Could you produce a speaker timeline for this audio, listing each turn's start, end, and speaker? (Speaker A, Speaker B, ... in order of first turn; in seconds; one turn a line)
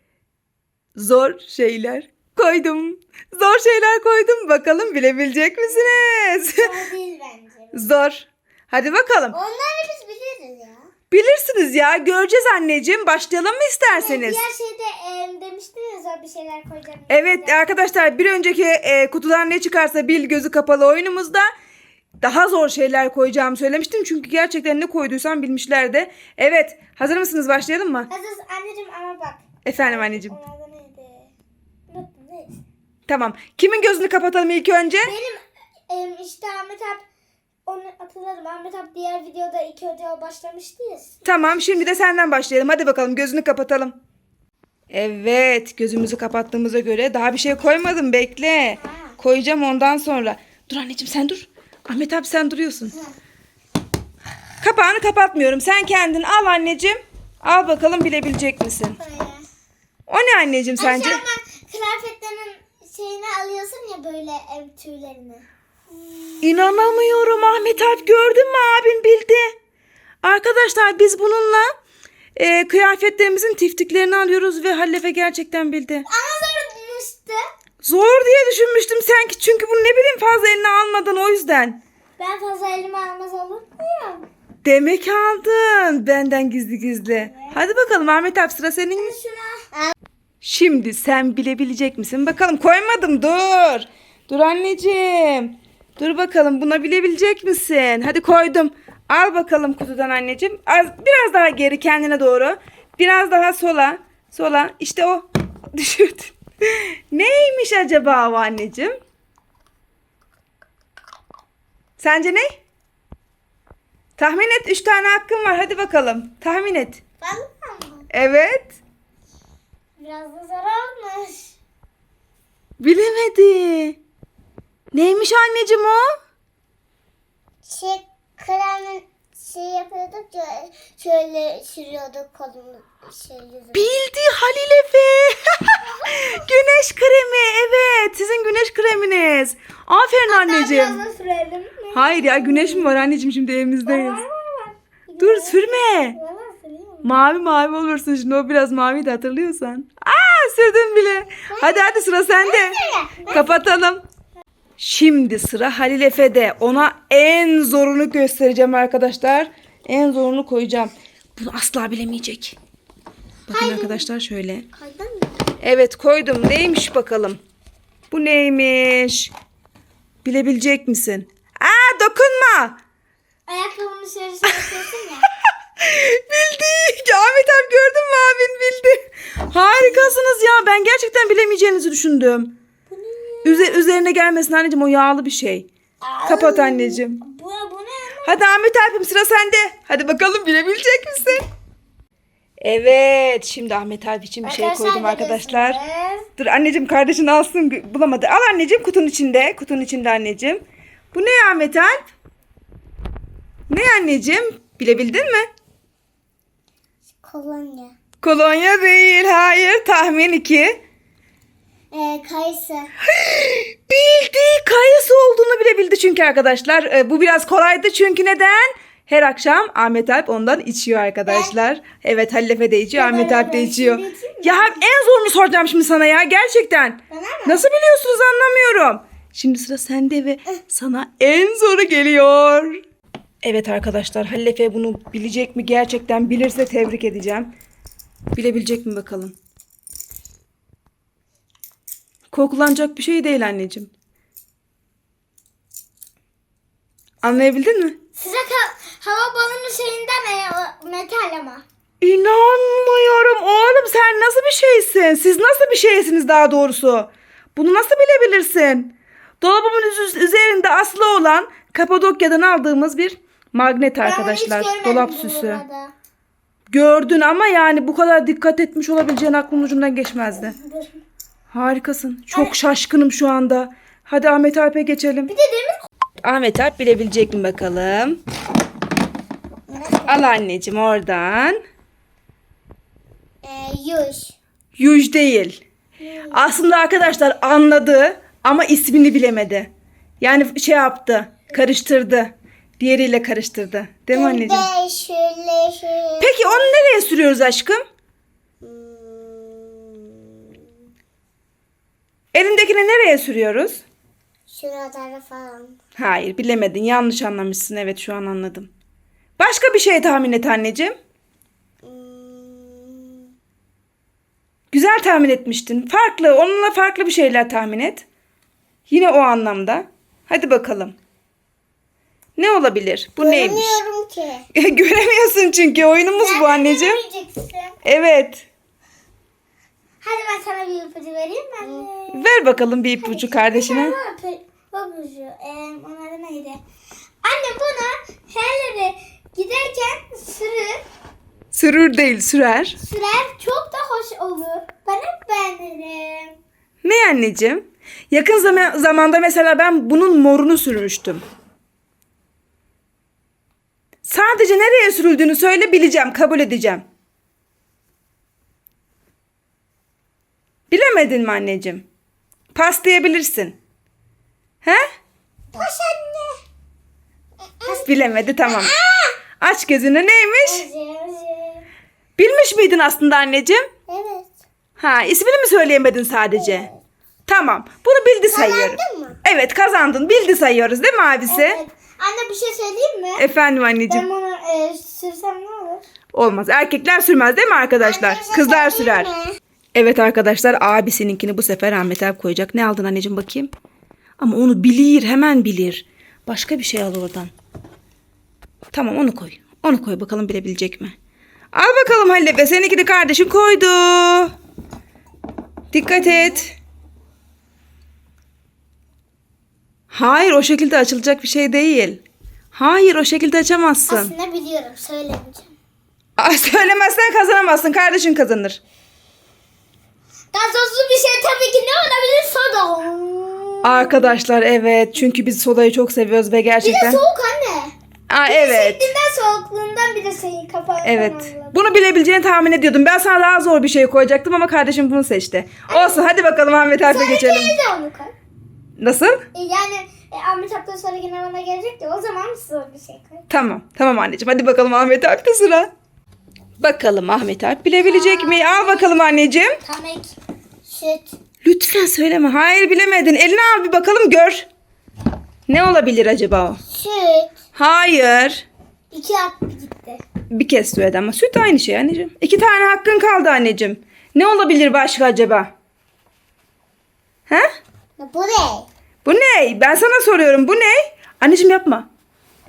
Speaker A: 1.0-6.7
Speaker B: 5.7-7.9
Speaker A: 7.7-9.4
Speaker B: 9.3-10.9
Speaker A: 11.1-14.4
Speaker B: 13.9-17.6
Speaker A: 17.1-21.5
Speaker A: 22.2-28.1
Speaker B: 28.1-31.3
Speaker A: 29.6-30.4
Speaker B: 31.9-32.6
Speaker A: 33.1-35.1
Speaker B: 35.0-37.0
Speaker B: 37.7-41.2
Speaker A: 41.2-44.0
Speaker A: 44.9-53.0
Speaker B: 48.8-49.1
Speaker A: 54.6-59.0
Speaker B: 59.0-59.5
Speaker A: 60.1-61.2
Speaker B: 60.8-65.5
Speaker B: 66.1-66.7
Speaker A: 66.4-69.5
Speaker A: 70.2-71.7
Speaker A: 72.4-76.1
Speaker B: 76.1-77.4
Speaker A: 77.8-81.8
Speaker B: 82.2-84.2
Speaker A: 84.6-89.2
Speaker B: 87.2-87.6
Speaker B: 89.0-89.9
Speaker A: 90.4-109.0
Speaker A: 112.0-112.5
Speaker A: 114.2-117.0
Speaker B: 117.2-118.1
Speaker A: 118.1-118.8
Speaker B: 120.0-121.5
Speaker A: 122.8-124.0
Speaker A: 124.9-126.1
Speaker B: 127.6-133.9
Speaker A: 133.7-141.0
Speaker B: 140.3-142.9
Speaker A: 141.9-144.2
Speaker B: 143.9-147.1
Speaker A: 145.2-146.2
Speaker A: 147.0-152.8
Speaker B: 151.5-153.6
Speaker A: 153.3-154.0
Speaker A: 154.8-162.6
Speaker B: 163.5-164.1
Speaker A: 163.5-164.7
Speaker B: 164.7-165.3
Speaker A: 165.6-167.4
Speaker A: 168.1-169.3
Speaker A: 170.2-172.8
Speaker B: 173.5-175.3
Speaker A: 175.8-182.5
Speaker B: 179.7-180.1
Speaker B: 182.9-183.9
Speaker A: 183.4-185.7
Speaker B: 186.0-188.4
Speaker A: 186.2-187.2
Speaker A: 188.2-191.4
Speaker A: 192.6-195.8
Speaker B: 194.4-196.3
Speaker A: 196.4-200.6
Speaker A: 201.1-202.0
Speaker A: 203.7-205.5
Speaker B: 207.2-207.9
Speaker A: 208.2-210.8
Speaker B: 211.9-212.9
Speaker A: 213.1-232.8
Speaker B: 221.3-221.6
Speaker B: 222.9-224.8
Speaker B: 227.1-227.6
Speaker A: 233.4-237.5
Speaker A: 238.3-239.3
Speaker A: 242.3-243.9
Speaker A: 247.2-248.0
Speaker B: 248.2-251.6
Speaker A: 252.0-265.6
Speaker B: 264.0-265.9
Speaker A: 266.7-270.6
Speaker B: 270.3-271.0
Speaker A: 271.5-275.3
Speaker B: 275.3-275.8
Speaker A: 276.2-278.2
Speaker B: 279.7-280.3
Speaker A: 280.1-281.6
Speaker B: 283.4-284.3
Speaker A: 284.8-285.6
Speaker B: 286.0-286.4
Speaker A: 286.3-289.7
Speaker A: 290.2-294.7
Speaker B: 294.1-296.8
Speaker A: 296.2-297.8
Speaker B: 298.6-300.3
Speaker A: 302.3-303.8
Speaker B: 304.5-305.8
Speaker A: 306.0-308.7
Speaker A: 309.4-311.0
Speaker B: 311.8-313.3
Speaker A: 314.7-318.1
Speaker A: 318.9-320.9
Speaker A: 322.4-323.8
Speaker B: 323.2-324.5
Speaker A: 324.5-327.0
Speaker B: 326.1-327.8
Speaker A: 327.8-328.4
Speaker B: 330.0-336.6
Speaker A: 332.1-333.9
Speaker B: 337.2-340.8
Speaker A: 341.5-342.8
Speaker B: 342.8-346.4
Speaker A: 346.8-351.2
Speaker B: 348.4-348.7
Speaker A: 354.1-356.8
Speaker A: 360.7-361.9
Speaker A: 362.5-363.6
Speaker B: 365.5-366.4
Speaker B: 367.6-367.9
Speaker A: 367.7-368.8
Speaker B: 368.4-369.2
Speaker A: 369.4-370.6
Speaker B: 370.4-371.7
Speaker A: 372.2-373.6
Speaker B: 373.9-374.3
Speaker A: 374.8-376.7
Speaker B: 376.4-376.8
Speaker A: 377.3-381.6
Speaker B: 378.3-379.2
Speaker B: 381.3-383.2
Speaker A: 383.2-384.1
Speaker B: 383.9-385.8
Speaker A: 386.1-389.1
Speaker B: 387.8-389.4
Speaker A: 389.8-393.5
Speaker A: 394.2-397.3
Speaker A: 398.7-400.9
Speaker A: 401.5-404.3
Speaker A: 405.7-406.5
Speaker B: 406.0-406.4
Speaker A: 409.9-412.0
Speaker A: 412.5-414.1
Speaker B: 413.9-415.5
Speaker A: 416.2-418.6
Speaker B: 420.3-424.2
Speaker A: 423.6-427.0
Speaker B: 426.6-427.7
Speaker A: 428.1-428.9
Speaker B: 428.3-431.6
Speaker A: 430.8-437.5
Speaker B: 435.7-436.1
Speaker B: 436.8-438.1
Speaker A: 438.8-439.2
Speaker B: 439.3-443.2
Speaker A: 443.3-445.7
Speaker A: 446.6-449.6
Speaker B: 447.8-448.9
Speaker B: 449.6-450.1
Speaker B: 450.7-451.1
Speaker A: 451.4-454.5
Speaker A: 455.5-456.6
Speaker B: 456.7-457.4
Speaker A: 457.6-458.4
Speaker B: 458.9-460.0
Speaker A: 460.3-465.5
Speaker B: 468.0-468.7
Speaker A: 469.1-471.9